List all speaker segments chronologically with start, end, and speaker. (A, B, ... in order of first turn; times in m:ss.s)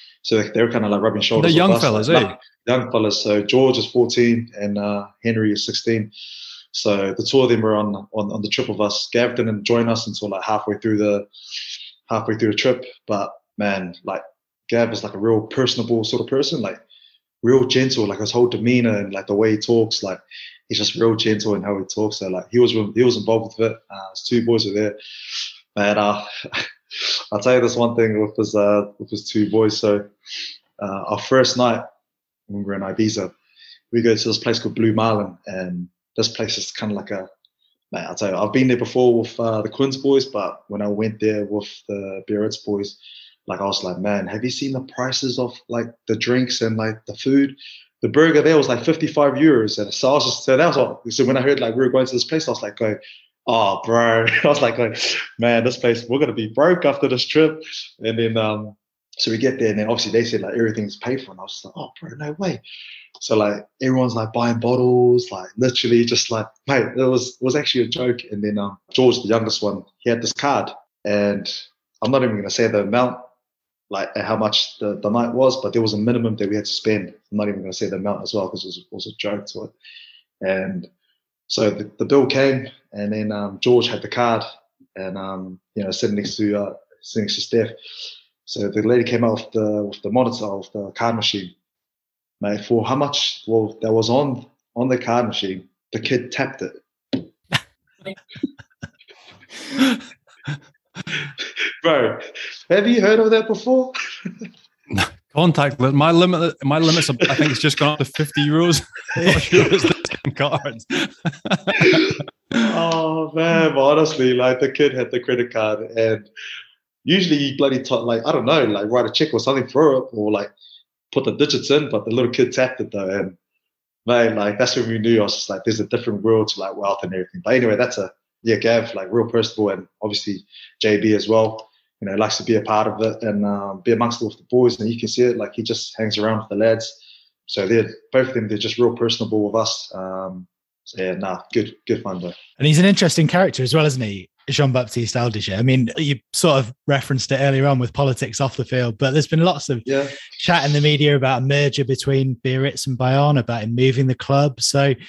0:00.2-0:06.1 A
0:01.4-0:02.4 B
0:06.7-0:11.3 A
0:12.1-0:16.8 A
0:17.4-0:25.0 A
0:25.7-0:30.1 A
0:30.8-0:31.8 A
0:32.5-0:33.3 A
0:33.9-0:37.3 A
0:37.9-1:02.6 A
1:03.2-1:13.2 A
1:13.9-1:19.7 A
1:20.4-1:20.9 A
1:21.5-1:27.7 A
1:28.5-1:31.5 A
1:32.4-1:37.2 A
1:41.8-1:44.3 A
1:44.9-1:52.1 B
1:49.2-1:49.5 C
1:51.8-1:56.3 A
1:57.0-2:00.5 A
2:01.1-2:03.4 A
2:04.0-2:17.0 A
2:17.5-2:22.4 A
2:22.6-2:29.8 C
2:29.8-2:30.2 A
2:30.4-2:34.9 C